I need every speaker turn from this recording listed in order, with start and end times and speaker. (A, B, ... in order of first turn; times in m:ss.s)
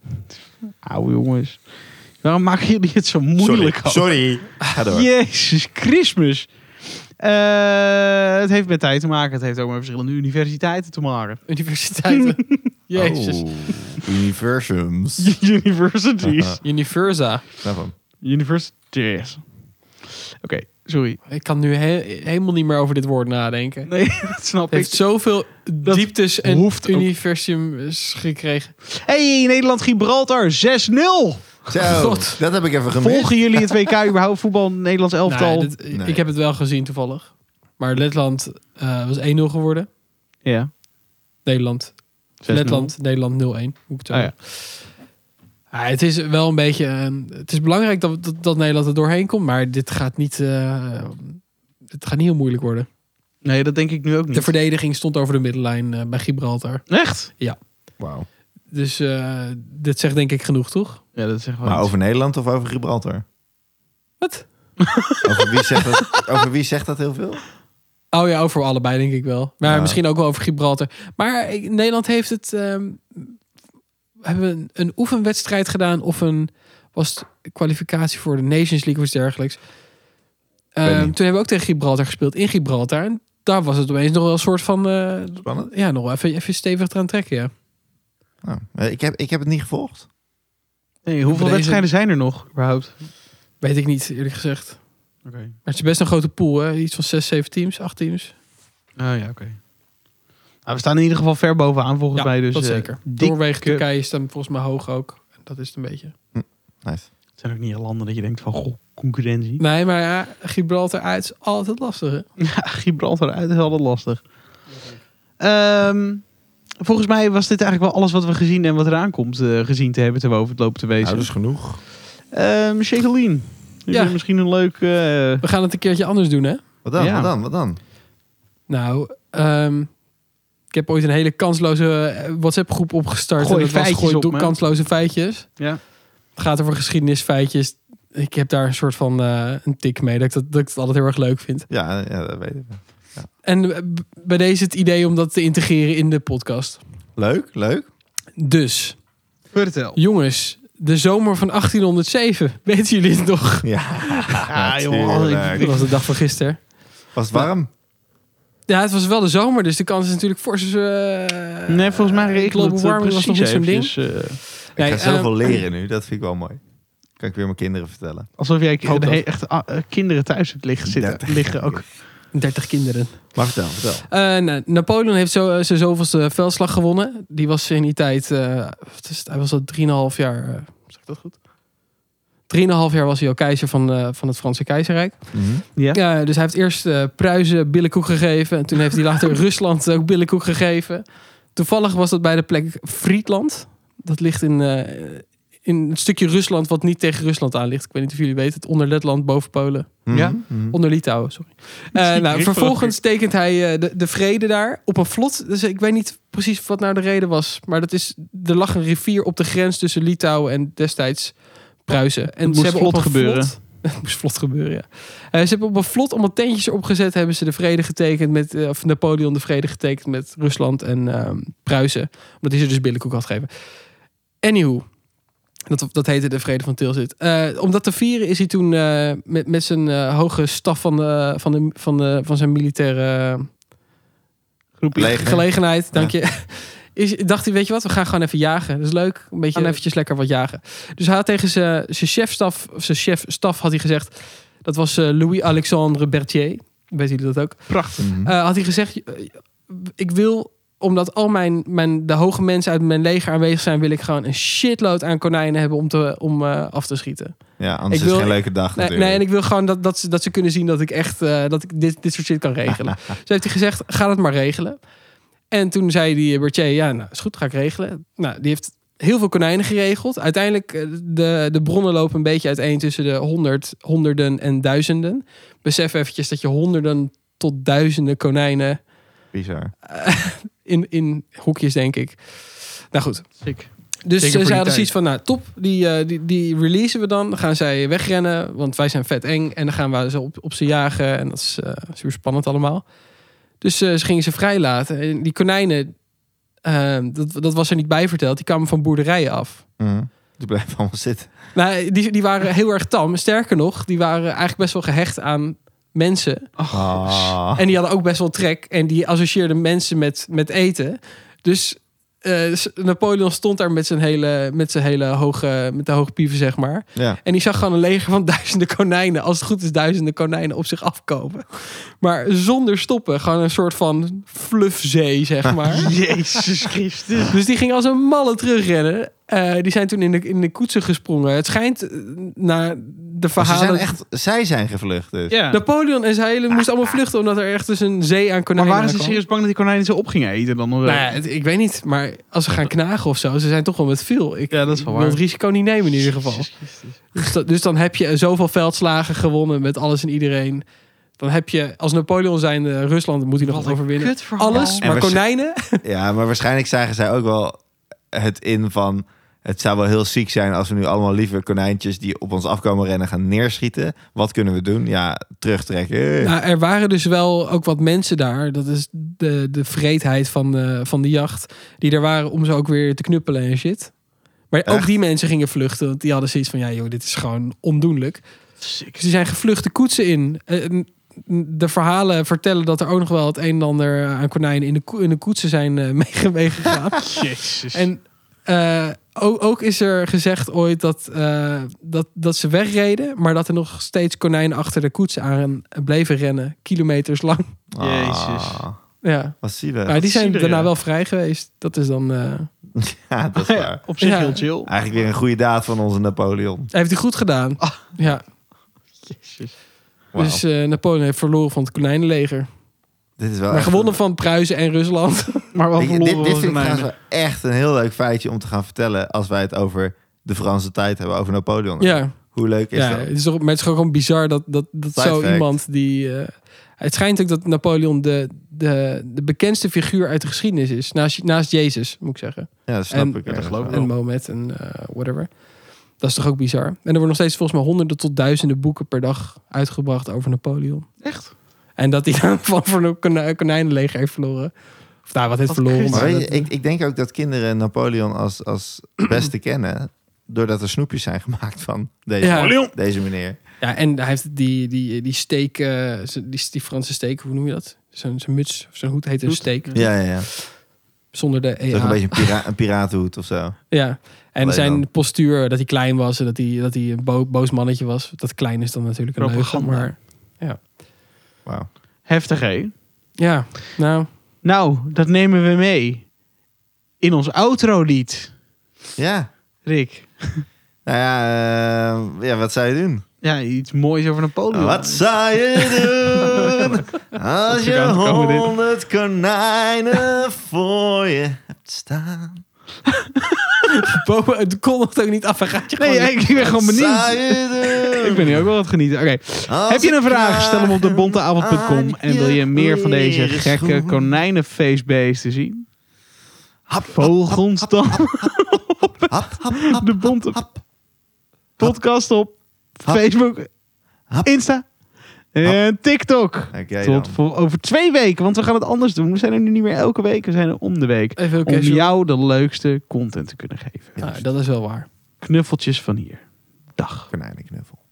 0:00.8-0:04.2 A
0:03.4-0:05.1 B
0:04.9-0:11.5 A
0:11.5-0:13.6 C
0:12.1-0:12.7 A
0:13.0-0:15.4 B
0:15.2-0:16.6 A
0:16.2-0:16.6 B
0:16.6-0:17.5 C
0:17.6-0:17.9 B
0:18.2-0:19.5 A
0:20.4-0:21.2 A
0:21.3-0:28.7 C
0:23.9-0:27.1 A
0:28.9-0:31.7 A
0:31.7-0:33.7 B
0:31.8-0:32.4 C
0:33.0-0:35.7 A
0:35.3-0:39.9 C
0:35.9-0:36.2 B
0:40.4-0:40.7 A
0:41.4-0:44.9 C
0:42.4-0:43.0 A
0:45.7-0:52.9 C
0:53.4-0:54.5 A
0:54.3-0:57.6 C
0:56.9-0:57.3 A
0:58.0-0:58.3 B
0:58.7-1:01.0 C
1:01.2-1:01.9 A
1:01.6-1:03.2 B
1:04.2-1:05.0 C
1:05.2-1:07.5 B
1:08.1-1:13.4 C
1:09.6-1:10.0 B
1:14.2-1:19.7 C
1:20.8-1:27.5 C
1:20.8-1:21.2 B
1:25.4-1:25.7 B
1:28.4-1:30.1 B
1:31.0-1:33.0 A
1:31.3-1:31.9 C
1:33.6-1:35.1 C
1:35.2-1:35.6 A
1:35.6-1:38.3 C
1:39.0-1:39.6 A
1:40.6-1:43.8 A
1:42.2-1:46.1 C
1:46.3-1:47.1 B
1:47.4-1:49.6 A
1:49.6-1:52.3 C
1:52.4-1:54.3 A
1:55.4-2:01.6 A
2:01.0-2:01.8 B
2:02.3-2:05.4 A
2:03.9-2:04.2 C
2:05.4-2:06.7 C
2:06.8-2:07.8 B
2:07.0-2:07.3 A
2:08.7-2:10.0 C
2:10.7-2:21.7 C
2:13.4-2:14.6 A
2:21.7-2:23.3 B
2:23.4-2:26.8 C
2:27.2-2:27.9 B
2:28.4-2:29.1 C
2:29.5-2:30.0 A
2:30.0-2:33.9 C
2:33.6-2:36.0 B
2:34.5-2:36.2 A
2:35.6-2:37.5 C
2:37.1-2:37.7 B
2:38.7-2:45.3 C
2:41.7-2:44.4 A
2:44.8-2:46.6 B
2:47.2-2:48.3 B
2:48.4-2:51.9 A
2:48.8-2:49.2 C
2:50.9-2:51.9 B
2:52.3-3:01.4 C
2:53.3-2:54.1 B
3:02.5-3:45.0 C
3:05.3-3:05.6 B
3:05.8-3:06.0 A
3:20.1-3:20.8 B
3:20.1-3:20.4 A
3:21.9-3:23.0 A
3:32.4-3:33.6 A
3:45.7-3:53.5 C
3:54.8-3:55.4 A
3:55.0-3:56.2 B
3:55.0-4:24.9 C
3:59.5-3:59.8 A
4:07.7-4:08.0 A
4:08.0-4:08.3 B
4:17.6-4:19.2 B
4:25.5-4:38.8 C
4:39.3-4:39.7 B
4:39.9-4:43.5 C
4:43.4-4:44.9 A
4:44.0-4:52.9 C
4:53.6-4:56.0 C
4:56.6-4:59.7 C
4:59.8-5:01.4 B
5:01.5-5:06.6 C
5:06.6-5:07.3 A
5:06.7-5:07.6 B
5:07.5-5:26.0 C
5:25.5-5:25.8 B
5:25.8-5:27.3 A
5:27.2-5:33.9 C
5:33.4-5:35.4 B
5:35.3-5:35.6 A
5:35.5-5:39.2 C
5:38.6-5:41.2 A
5:40.8-5:50.6 C
5:44.5-5:45.2 A
5:46.0-5:47.3 A
5:51.2-5:55.8 C
5:53.4-5:54.9 A
5:54.5-5:55.3 B
5:55.8-6:06.4 B
6:06.2-6:14.0 C
6:14.5-6:18.3 C
6:14.7-6:14.9 B
6:18.6-6:19.0 A
6:18.9-6:37.5 C
6:27.1-6:27.9 A
6:37.7-6:38.8 B
6:37.8-6:38.6 A
6:39.0-6:42.5 C
6:39.4-6:40.0 B
6:39.9-6:40.7 A
6:42.8-6:43.8 B
6:43.4-6:44.7 A
6:44.0-6:44.4 C
6:44.7-6:46.7 B
6:46.7-6:48.2 C
6:49.1-6:49.5 A
6:50.1-6:50.4 B
6:50.2-6:52.5 C
6:53.2-6:54.0 B
6:53.5-6:55.5 C
6:55.5-6:56.9 A
6:55.8-7:03.1 B
7:01.8-7:21.1 C
7:04.9-7:05.6 B
7:12.7-7:13.8 B
7:13.2-7:13.9 A
7:21.0-7:21.3 A
7:21.8-7:26.4 C
7:25.5-7:26.2 A
7:25.9-7:33.4 B
7:32.2-7:32.9 C
7:32.3-7:32.7 A
7:33.6-7:40.6 C
7:39.2-7:39.9 A
7:39.7-7:40.3 B
7:41.1-7:42.4 C
7:41.7-7:43.8 B
7:43.7-7:50.6 C
7:44.4-7:44.9 B
7:49.2-7:49.9 A
7:52.0-7:52.8 A
7:53.2-7:54.1 C
7:54.4-7:56.1 A
7:57.0-7:58.4 A
7:59.0-7:59.3 B
7:59.6-8:00.5 A
8:00.8-8:03.0 B
8:03.2-8:05.2 A
8:04.5-8:12.4 B
8:07.5-8:08.5 A
8:13.2-8:13.5 A
8:13.8-8:16.6 C
8:15.8-8:25.7 A
8:16.5-8:18.4 B
8:19.5-8:24.1 B
8:26.7-8:28.3 B
8:26.9-8:30.4 A
8:29.1-8:30.6 B
8:31.6-8:33.5 A
8:34.1-8:34.4 B
8:34.2-8:44.0 A
8:36.5-8:37.2 B
8:41.2-8:41.9 C
8:44.0-8:44.2 B
8:44.0-8:44.9 C
8:45.2-8:47.1 A
8:47.1-8:47.8 B